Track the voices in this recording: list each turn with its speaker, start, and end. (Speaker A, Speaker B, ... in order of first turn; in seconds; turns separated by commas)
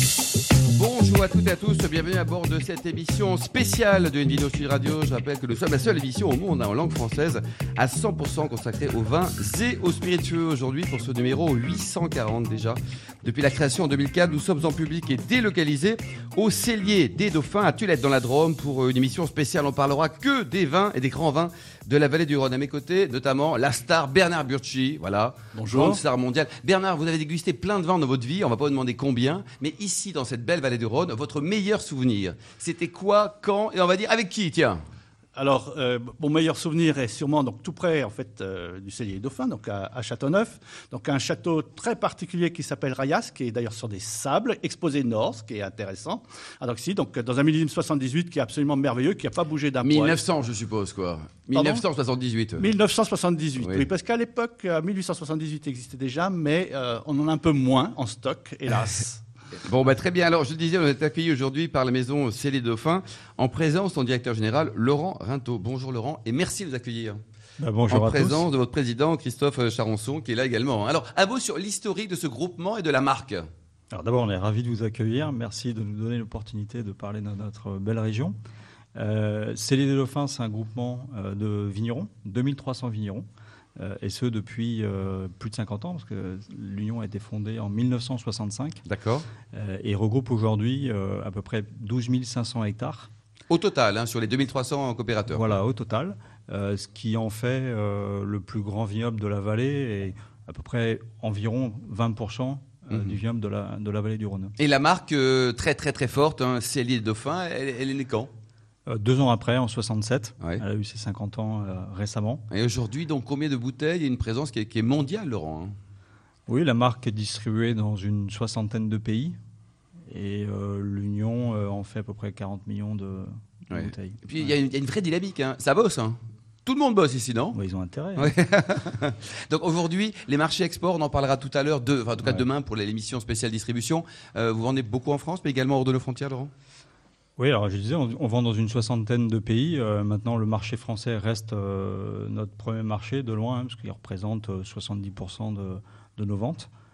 Speaker A: 0.7-34.8, Speaker B: 25.5-26.0, Speaker B: 35.4-50.2, Speaker A: 49.8-52.7, Speaker B: 51.5-51.8, Speaker B: 52.6-59.2, Speaker A: 53.6-53.8, Speaker A: 59.6-67.2, Speaker C: 67.6-68.5, Speaker A: 67.9-73.5, Speaker C: 73.9-78.3, Speaker C: 78.9-83.2, Speaker C: 83.8-88.8, Speaker A: 88.8-89.3, Speaker C: 89.5-93.1, Speaker A: 93.5-95.4, Speaker C: 95.3-104.5, Speaker A: 102.9-103.2, Speaker A: 104.6-108.3, Speaker C: 108.9-112.4, Speaker A: 112.5-115.7, Speaker C: 116.5-119.4, Speaker C: 120.1-124.5, Speaker A: 123.7-127.6, Speaker C: 127.5-128.3, Speaker A: 128.2-136.5, Speaker C: 137.4-146.7